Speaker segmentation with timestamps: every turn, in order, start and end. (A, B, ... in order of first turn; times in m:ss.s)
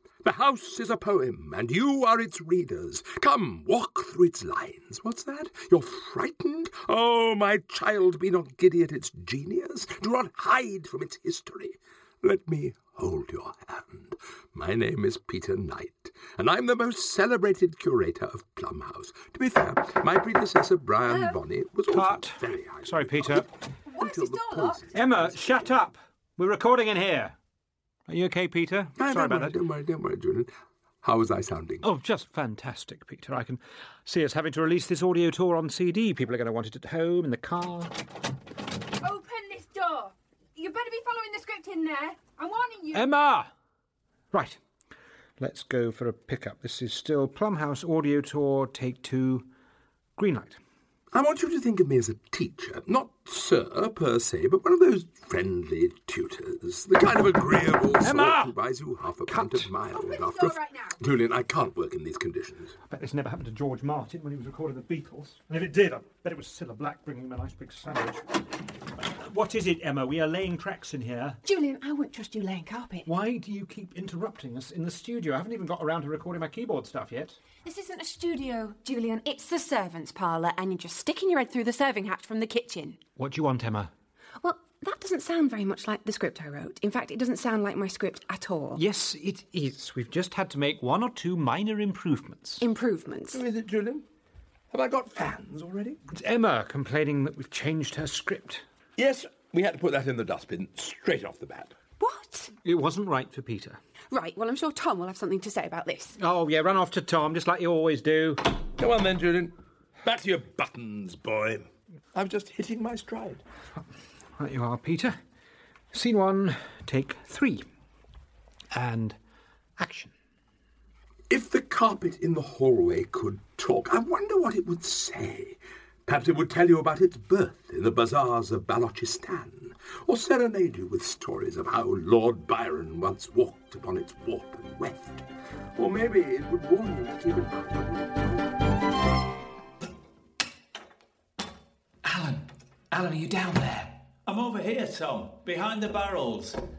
0:00.2-0:25.4 A
0:21.9-0:23.5 B
0:23.9-0:24.8 C
0:24.9-0:27.4 B
0:28.1-0:29.6 B
0:29.0-0:30.5 A
0:31.0-0:31.8 A
0:31.8-0:38.0 B
0:39.0-0:43.0 C
0:42.9-0:43.5 B
0:44.3-0:44.6 B
0:45.4-0:49.5 B
0:50.2-0:50.6 B
0:51.1-1:02.8 A
0:58.0-0:58.5 B
0:59.3-0:59.7 B
1:00.0-1:00.9 C
1:02.9-1:08.4 B
1:08.9-1:11.4 B
1:11.4-1:13.1 C
1:13.0-1:17.4 B
1:17.6-1:23.0 C
1:23.2-1:23.9 B
1:24.4-1:28.8 C
1:28.7-1:32.6 B
1:32.6-1:33.4 C
1:33.3-1:34.0 A
1:34.7-1:36.0 A
1:36.1-1:38.6 B
1:39.0-1:41.8 A
1:42.0-1:42.5 C
1:42.6-1:43.8 B
1:44.1-1:46.2 C
1:46.2-1:48.5 B
1:48.8-1:53.4 A
1:54.4-1:55.2 B
1:55.9-1:57.6 B
1:58.7-1:59.2 B
1:59.8-2:00.1 B
2:01.3-2:15.2 A
2:15.8-2:18.5 A
2:22.0-2:24.0 D
2:24.2-2:26.6 E